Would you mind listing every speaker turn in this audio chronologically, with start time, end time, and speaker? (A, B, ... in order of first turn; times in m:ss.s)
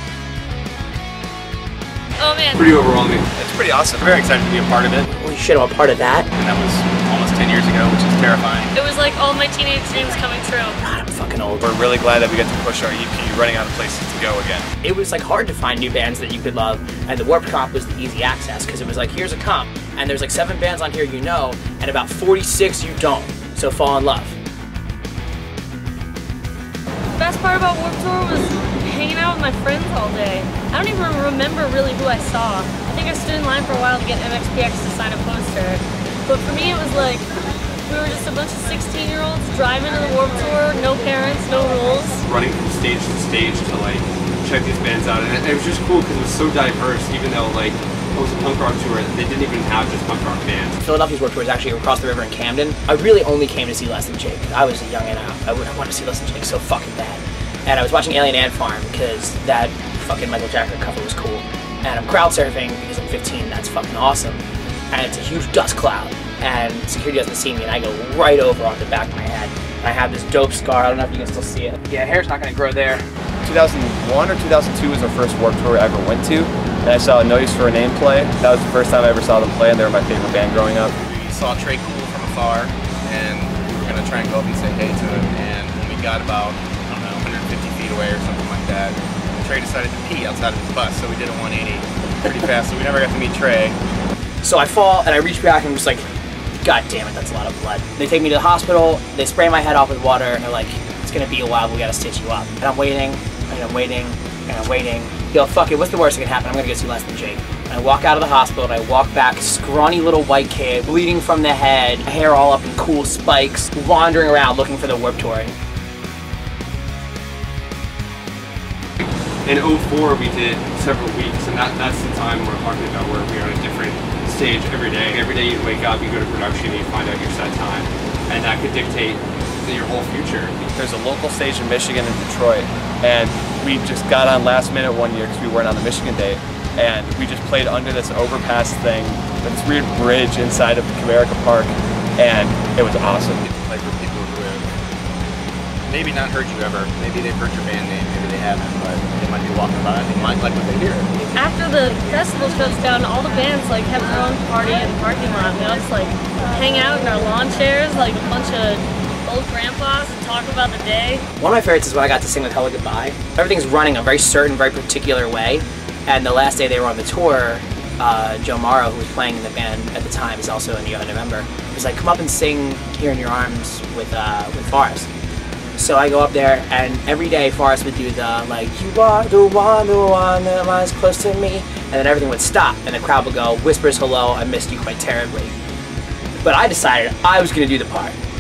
0:02.2-0:02.8 A
0:02.6-0:03.3 B
0:03.4-0:04.0 C
0:04.0-0:05.1 B
0:05.2-0:06.3 D
0:06.4-0:08.7 E
0:08.8-0:10.8 A
0:10.8-0:11.7 D
0:11.6-0:14.7 C
0:14.8-0:24.4 D
0:27.2-0:37.3 A
0:37.9-0:42.2 A
0:42.2-0:50.8 B
0:50.8-1:13.0 D
1:13.4-1:21.0 C
1:21.0-1:33.8 E
1:34.4-1:36.0 D
1:36.6-1:55.6 D
1:59.4-2:10.7 B
2:10.8-2:23.4 C
2:23.4-2:24.8 E
2:25.9-2:31.1 E
2:31.3-2:41.3 A
2:41.4-2:55.1 D
2:55.8-3:05.6 D
3:06.4-3:08.2 D